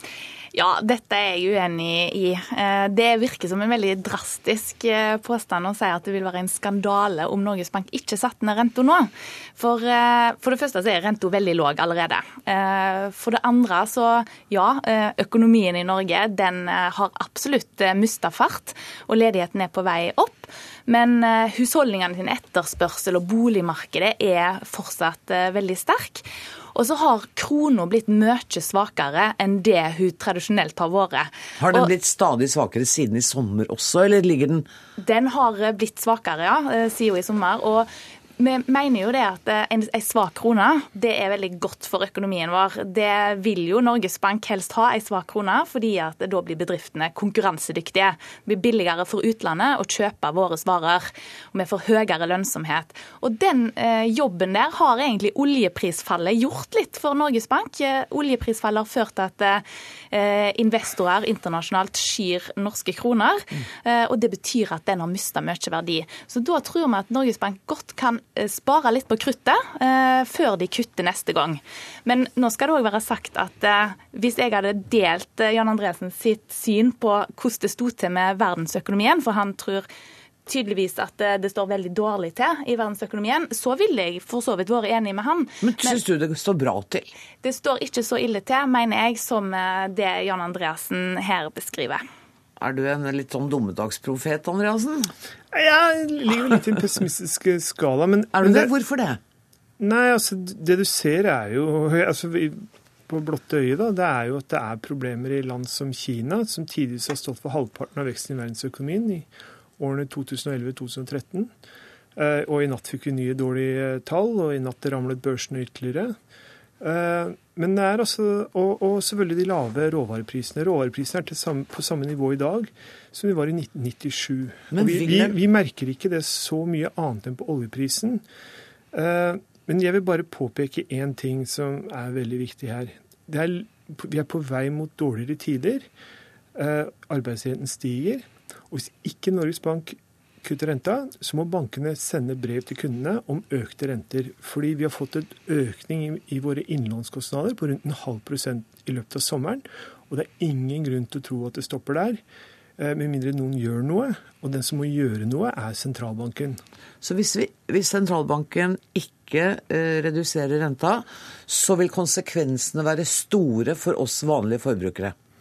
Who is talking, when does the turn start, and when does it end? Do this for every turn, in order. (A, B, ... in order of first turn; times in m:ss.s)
0:00.5-0:31.9 A
0:31.6-0:34.7 B
0:35.0-1:19.9 A
1:20.5-1:26.0 A
1:25.6-1:27.1 B
1:27.4-1:32.0 A
1:32.6-1:35.1 B
1:35.5-1:38.7 C
1:38.3-1:39.2 B
1:39.8-1:51.5 C
1:52.2-1:56.1 C
1:56.8-2:08.2 C
2:04.7-2:05.3 B
2:08.9-2:15.9 C
2:16.5-2:32.2 C
2:32.8-2:36.6 C
2:37.0-2:45.1 B